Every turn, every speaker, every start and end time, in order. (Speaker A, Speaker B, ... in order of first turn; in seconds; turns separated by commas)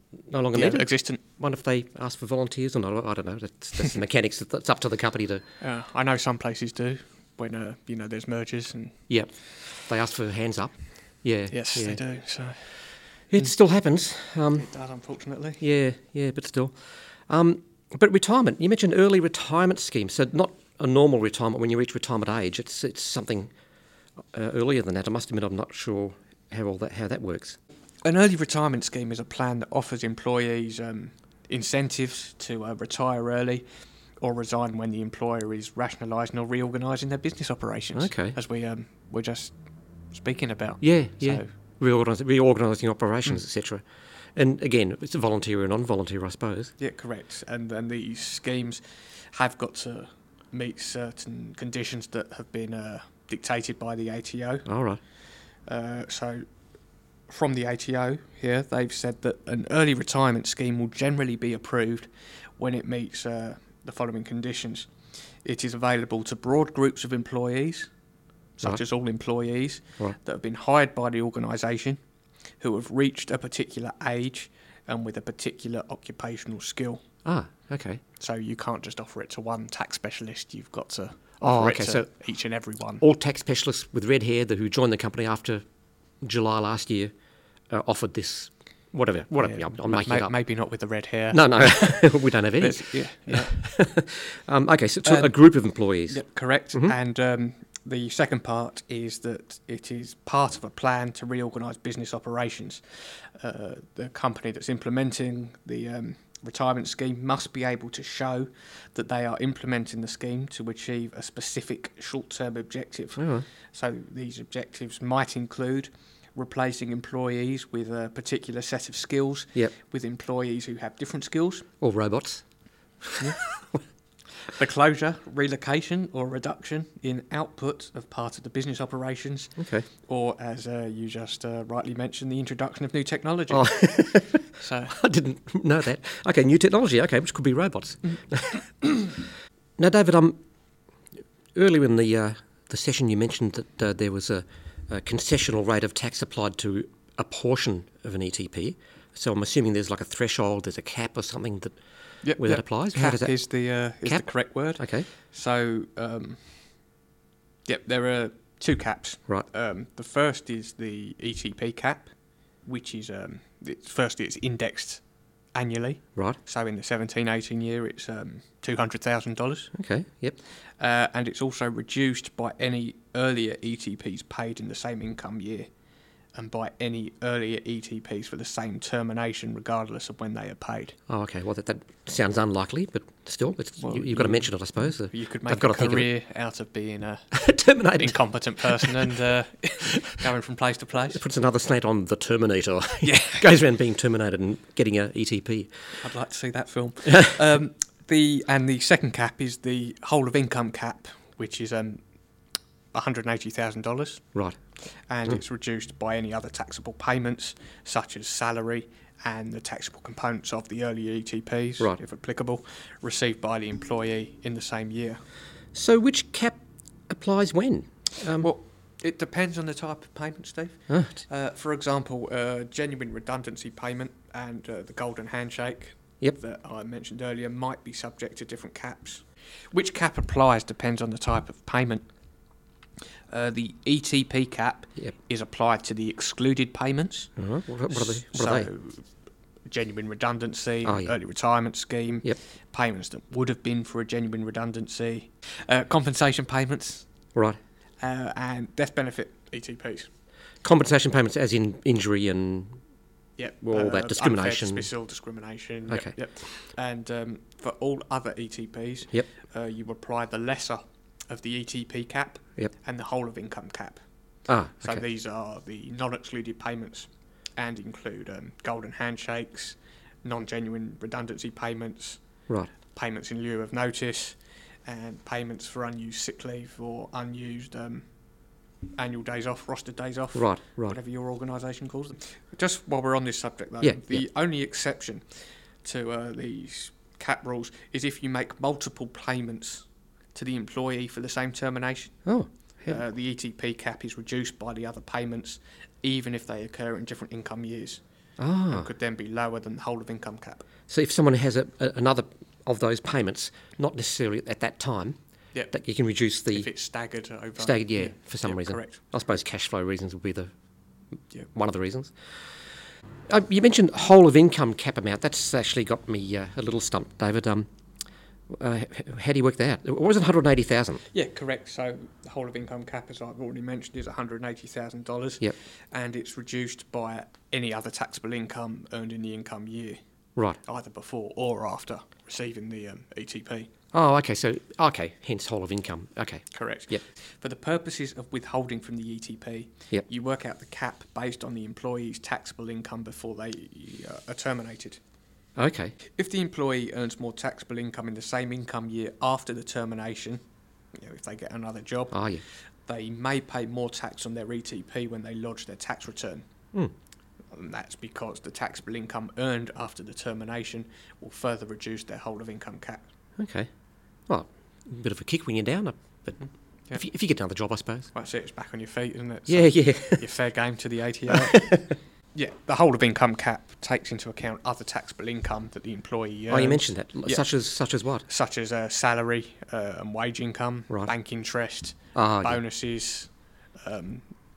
Speaker A: 0.3-5.4, Speaker B: 0.5-1.2, Speaker B: 5.6-9.0, Speaker A: 9.1-12.0, Speaker B: 11.5-13.5, Speaker A: 13.3-14.7, Speaker B: 14.5-15.6, Speaker A: 15.6-16.7, Speaker A: 17.3-23.5, Speaker A: 24.3-27.6, Speaker B: 28.0-33.6, Speaker B: 34.2-39.6, Speaker A: 37.9-38.4, Speaker B: 40.1-41.5, Speaker A: 40.8-43.8, Speaker A: 44.4-46.7, Speaker B: 46.8-54.7, Speaker A: 54.6-55.0, Speaker B: 55.6-56.4, Speaker B: 57.3-64.9, Speaker B: 65.4-67.9, Speaker B: 68.6-72.0, Speaker B: 72.6-77.0, Speaker A: 77.2-78.0, Speaker B: 78.2-83.0, Speaker A: 81.4-82.1, Speaker A: 83.0-85.6, Speaker A: 86.2-87.1, Speaker A: 87.7-90.3, Speaker B: 89.4-92.0, Speaker A: 91.3-97.0, Speaker B: 92.6-93.6, Speaker B: 95.0-95.4, Speaker B: 96.1-121.7, Speaker A: 113.2-113.5, Speaker A: 121.8-122.4, Speaker A: 123.0-123.8, Speaker B: 124.5-133.9, Speaker A: 129.6-129.9, Speaker A: 133.5-138.7, Speaker B: 134.5-135.0, Speaker A: 139.8-140.4, Speaker A: 141.5-151.7, Speaker B: 152.2-156.5, Speaker A: 152.4-153.4, Speaker A: 154.8-155.1, Speaker B: 157.7-162.1, Speaker B: 162.6-165.0, Speaker B: 165.5-169.7, Speaker A: 169.8-170.4, Speaker B: 170.8-175.7, Speaker B: 176.3-180.9, Speaker A: 181.1-186.1, Speaker B: 183.8-191.2, Speaker A: 187.3-189.1, Speaker A: 191.1-195.7, Speaker B: 193.0-193.5, Speaker B: 196.0-202.0, Speaker B: 202.9-204.3, Speaker B: 205.1-215.2, Speaker A: 215.7-218.5, Speaker B: 218.4-232.1, Speaker A: 220.9-221.2, Speaker B: 233.3-237.3, Speaker A: 237.4-238.7, Speaker B: 237.9-239.1, Speaker B: 239.7-247.1, Speaker A: 240.8-241.1, Speaker A: 247.3-247.6, Speaker B: 248.0-250.1, Speaker A: 250.6-252.8, Speaker B: 253.4-264.0, Speaker A: 253.6-254.9, Speaker A: 255.9-256.1, Speaker A: 264.5-265.0, Speaker B: 264.8-272.2, Speaker B: 272.9-278.1, Speaker B: 278.9-285.3, Speaker A: 280.4-281.0, Speaker A: 283.8-284.2, Speaker B: 285.8-292.3, Speaker A: 292.2-293.0, Speaker B: 292.9-298.0, Speaker A: 298.4-298.9, Speaker B: 298.7-300.6, Speaker A: 300.9-305.2, Speaker A: 305.7-306.7, Speaker B: 306.5-309.0, Speaker A: 307.6-310.5, Speaker A: 311.5-312.1, Speaker A: 313.3-317.7, Speaker A: 318.5-321.0, Speaker B: 321.1-330.0, Speaker B: 330.6-333.7, Speaker A: 333.9-337.0, Speaker B: 336.5-345.0, Speaker A: 345.6-345.9, Speaker B: 346.1-350.4, Speaker B: 350.9-352.2, Speaker A: 352.1-352.4, Speaker B: 352.9-356.4, Speaker B: 357.5-363.0, Speaker A: 363.4-363.7, Speaker A: 364.3-368.1, Speaker B: 366.4-367.0, Speaker B: 368.1-377.5, Speaker A: 369.5-370.3, Speaker A: 371.3-371.9, Speaker A: 376.5-378.2, Speaker B: 378.2-383.3, Speaker A: 382.1-382.6, Speaker B: 383.8-384.3